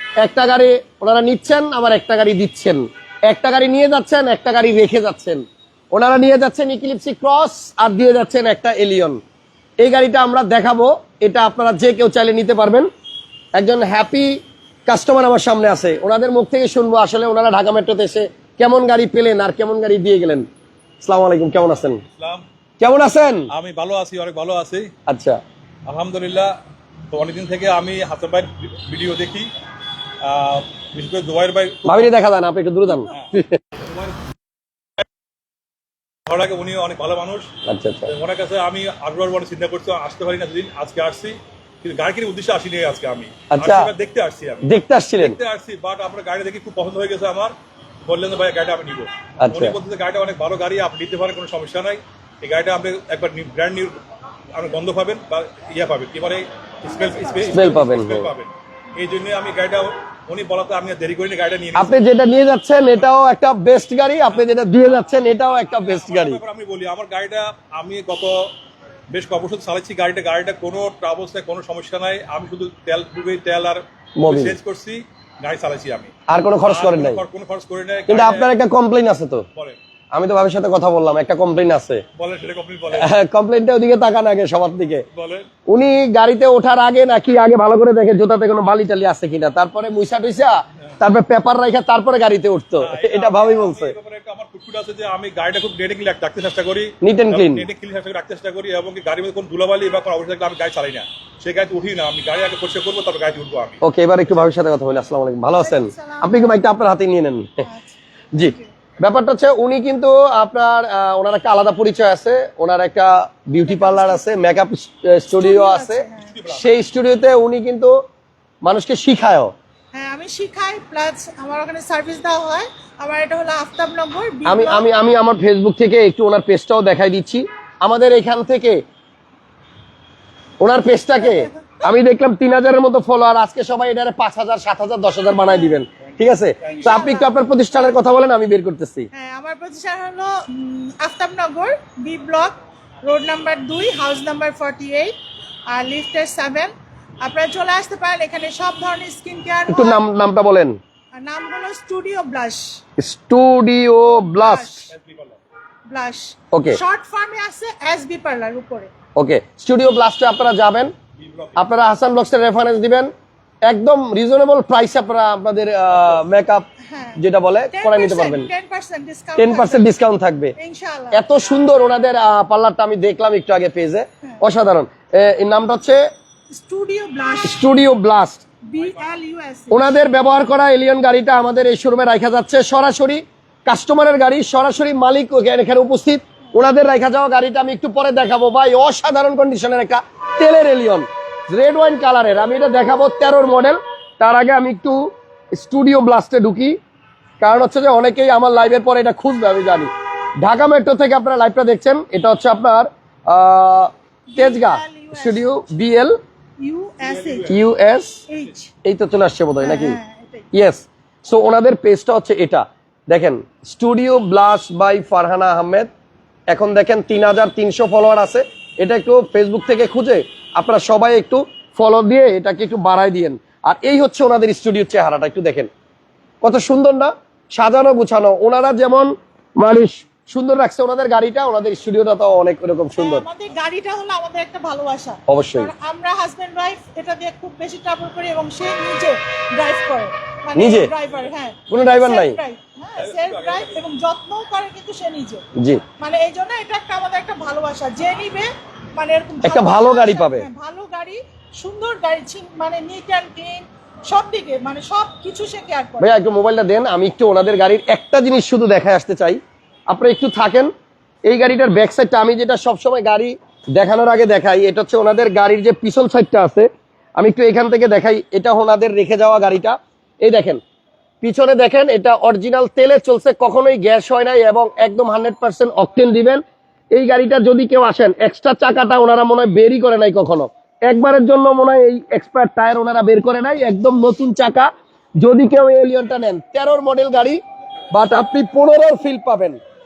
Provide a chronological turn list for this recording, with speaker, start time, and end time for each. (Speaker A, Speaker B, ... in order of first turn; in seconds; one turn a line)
Speaker A: 0.2-9.2
Speaker A: 9.8-12.9
Speaker A: 13.5-20.5
Speaker A: 21.0-22.0
Speaker B: 22.1-22.4
Speaker A: 22.8-23.5
Speaker B: 23.5-24.9
Speaker A: 25.1-25.4
Speaker B: 25.9-26.6
Speaker B: 27.1-29.5
Speaker B: 30.2-32.1
Speaker A: 31.9-33.6
Speaker B: 33.1-34.2
Speaker B: 36.3-37.5
Speaker A: 37.7-38.1
Speaker B: 38.1-47.5
Speaker A: 43.5-43.9
Speaker A: 44.6-45.4
Speaker B: 48.0-54.0
Speaker A: 49.4-49.8
Speaker B: 54.5-61.9
Speaker A: 57.5-58.3
Speaker A: 61.7-66.4
Speaker B: 64.8-68.5
Speaker B: 69.1-76.1
Speaker A: 74.2-74.6
Speaker A: 76.3-77.2
Speaker B: 76.6-78.5
Speaker A: 78.1-79.5
Speaker A: 80.1-82.0
Speaker B: 82.2-83.1
Speaker A: 82.9-85.0
Speaker B: 85.1-85.5
Speaker A: 85.7-93.9
Speaker B: 92.8-103.8
Speaker A: 97.0-97.7
Speaker A: 103.8-107.7
Speaker C: 105.5-106.6
Speaker C: 107.6-108.7
Speaker A: 108.3-117.9
Speaker C: 113.5-114.2
Speaker C: 115.3-116.4
Speaker B: 116.3-116.7
Speaker A: 118.6-119.5
Speaker C: 119.9-124.9
Speaker A: 124.5-128.8
Speaker A: 130.6-139.1
Speaker C: 131.2-131.8
Speaker C: 135.3-135.8
Speaker B: 136.6-136.9
Speaker C: 136.7-138.0
Speaker C: 139.1-145.1
Speaker C: 145.7-150.0
Speaker A: 149.7-150.8
Speaker C: 151.1-152.8
Speaker A: 153.0-154.9
Speaker C: 154.0-154.9
Speaker B: 154.9-155.4
Speaker C: 155.9-158.9
Speaker A: 156.5-156.8
Speaker A: 159.2-160.9
Speaker B: 161.2-161.7
Speaker A: 161.6-163.1
Speaker A: 163.6-166.7
Speaker C: 166.9-167.2
Speaker A: 167.2-168.5
Speaker C: 167.7-169.9
Speaker A: 169.4-170.5
Speaker C: 170.6-171.3
Speaker A: 171.1-176.1
Speaker C: 176.5-177.7
Speaker A: 177.4-178.4
Speaker C: 178.7-180.0
Speaker A: 179.7-196.8
Speaker A: 197.4-199.9
Speaker A: 200.4-206.2
Speaker C: 204.3-205.5
Speaker C: 206.6-207.5
Speaker B: 207.0-207.6
Speaker A: 207.4-208.2
Speaker C: 208.3-208.7
Speaker A: 208.8-210.0
Speaker C: 209.6-210.5
Speaker A: 210.5-215.9
Speaker A: 216.5-225.7
Speaker A: 226.4-233.2
Speaker C: 233.0-245.5
Speaker A: 235.3-235.7
Speaker A: 240.5-240.9
Speaker A: 241.7-242.4
Speaker B: 243.0-243.8
Speaker C: 246.0-256.1
Speaker A: 249.4-250.5
Speaker A: 256.0-260.7
Speaker A: 261.2-270.6
Speaker A: 271.2-276.4
Speaker A: 276.9-287.4
Speaker A: 287.9-289.6